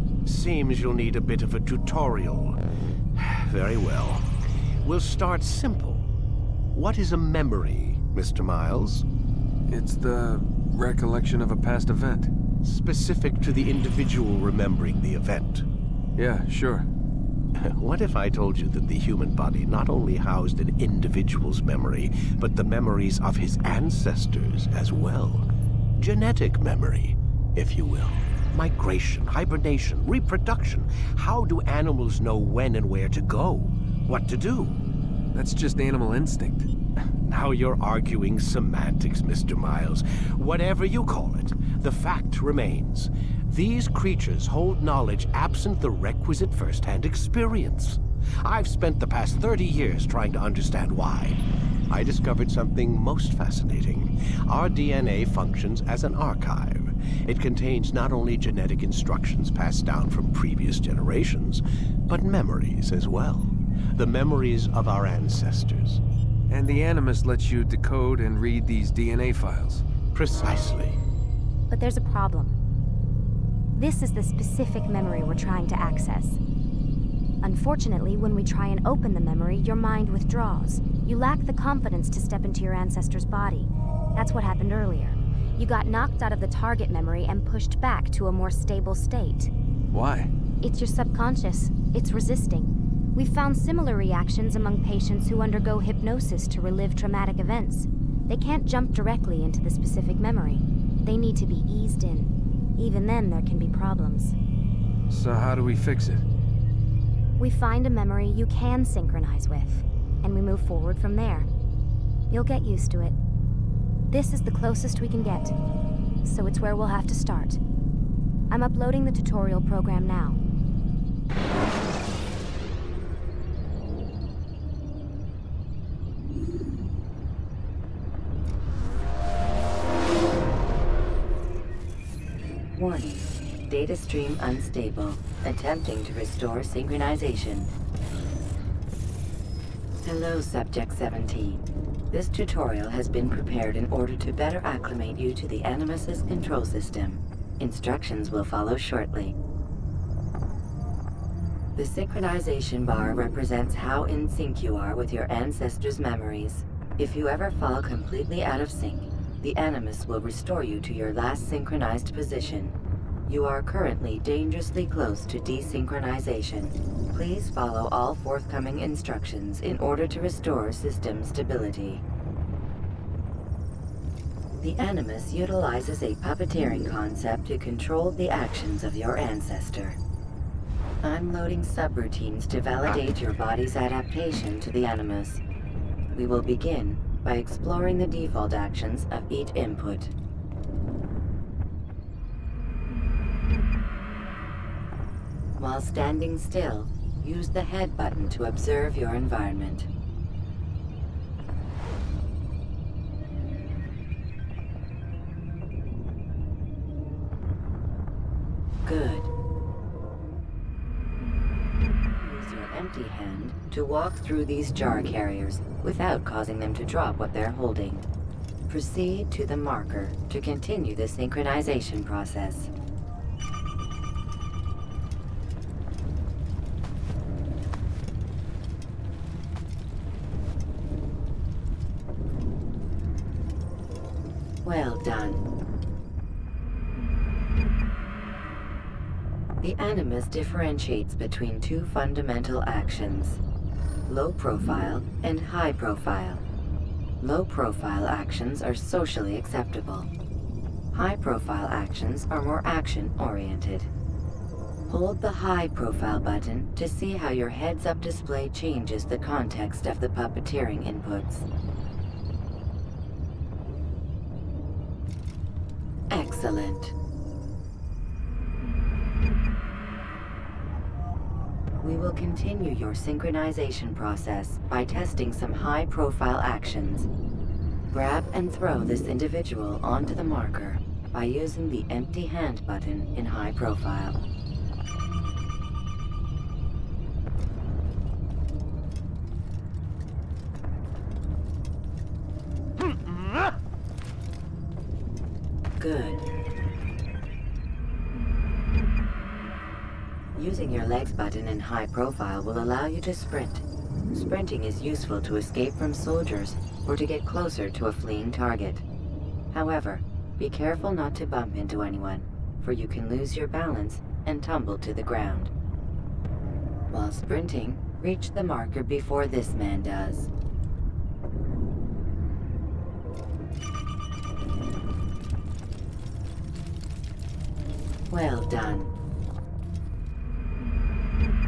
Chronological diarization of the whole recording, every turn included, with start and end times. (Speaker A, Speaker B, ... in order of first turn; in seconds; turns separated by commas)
Speaker A: 0.2-2.6, Speaker A: 3.1-4.3, Speaker A: 4.8-6.1, Speaker A: 6.7-9.1, Speaker B: 9.7-12.3, Speaker A: 12.6-15.7, Speaker B: 16.1-16.9, Speaker A: 17.5-34.8, Speaker B: 35.3-36.7, Speaker A: 37.2-66.0, Speaker B: 66.5-69.8, Speaker A: 70.1-71.0, Speaker C: 71.7-72.5, Speaker C: 73.8-76.4, Speaker C: 77.4-89.5, Speaker B: 89.9-90.3, Speaker C: 90.6-104.3, Speaker B: 105.1-106.2, Speaker C: 107.4-111.5, Speaker C: 112.3-113.1, Speaker C: 114.1-115.5, Speaker C: 116.2-117.6, Speaker C: 118.5-120.4, Speaker D: 132.7-137.7, Speaker D: 140.0-149.3, Speaker D: 151.7-172.0, Speaker D: 174.5-180.0, Speaker D: 181.0-185.4, Speaker D: 186.1-190.1, Speaker D: 195.6-199.9, Speaker D: 208.8-209.3, Speaker D: 212.0-218.0, Speaker D: 218.7-222.7, Speaker D: 234.6-235.5, Speaker D: 239.6-243.4, Speaker D: 244.1-246.4, Speaker D: 247.2-250.1, Speaker D: 250.9-253.9, Speaker D: 254.9-261.5, Speaker D: 266.1-266.9, Speaker D: 271.8-277.1, Speaker D: 277.9-284.2, Speaker D: 295.8-296.2, Speaker D: 300.4-308.8, Speaker D: 309.5-315.5, Speaker D: 316.9-320.3, Speaker D: 328.1-328.9